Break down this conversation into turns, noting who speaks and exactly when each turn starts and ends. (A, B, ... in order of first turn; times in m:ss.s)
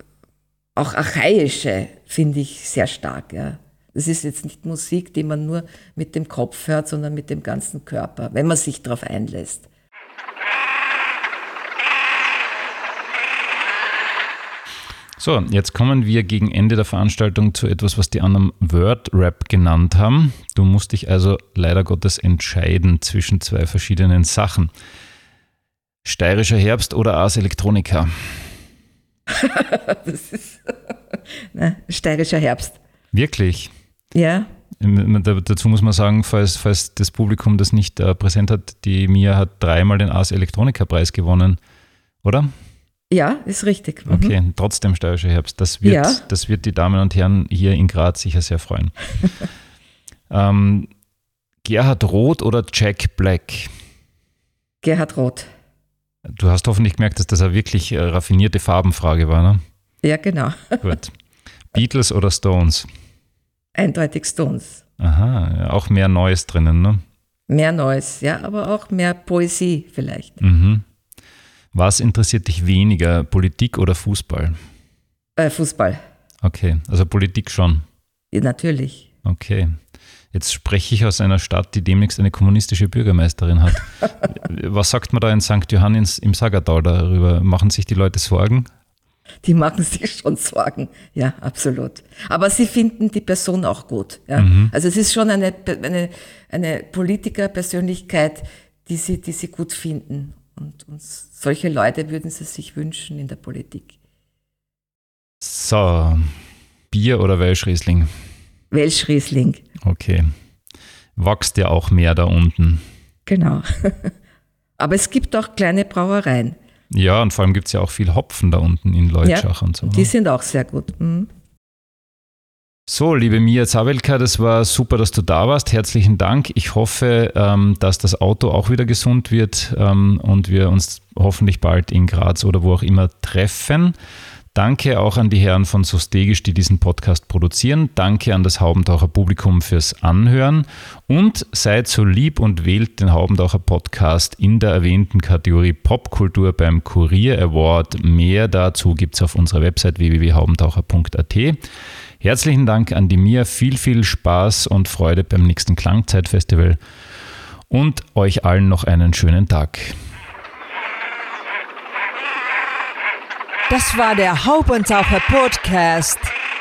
0:00.8-0:09.7 A
0:15.2-0:24.7 B
0:26.0-0:28.5 B
0:29.3-0:30.7 A
0:31.5-0:32.8 A
0:33.1-0:33.7 B
0:34.1-0:34.5 A
0:34.8-0:41.6 B
0:42.2-0:42.5 B
0:43.1-0:44.4 A
0:44.1-0:49.0 B
0:45.8-0:46.2 A
0:50.3-0:50.9 B
0:51.6-0:53.7 B
0:54.8-0:55.5 A
0:56.3-0:59.6 B
1:00.0-1:01.0 A
1:00.8-1:01.2 B
1:01.7-1:02.9 B
1:03.8-1:04.8 A
1:05.0-1:07.0 B
1:07.5-1:10.4 A
1:10.4-1:10.8 B
1:11.7-1:14.6 B
1:15.4-1:16.0 A
1:16.4-1:17.8 B
1:18.3-1:19.1 A
1:19.2-1:19.8 B
1:20.3-1:28.7 B
1:29.4-1:43.9 A
1:34.4-1:34.7 B
1:45.4-1:46.4 B
1:46.9-1:48.1 B
1:48.7-1:49.6 A
1:49.8-1:50.3 B
1:51.2-1:52.8 B
1:53.3-1:54.1 A
1:54.8-1:56.6 A
1:56.9-2:00.1 B
1:59.2-2:01.3 A
2:02.9-2:14.0 B
2:14.5-2:31.6 B
2:32.2-2:36.8 B
2:37.7-2:40.0 B
2:43.7-2:46.3 C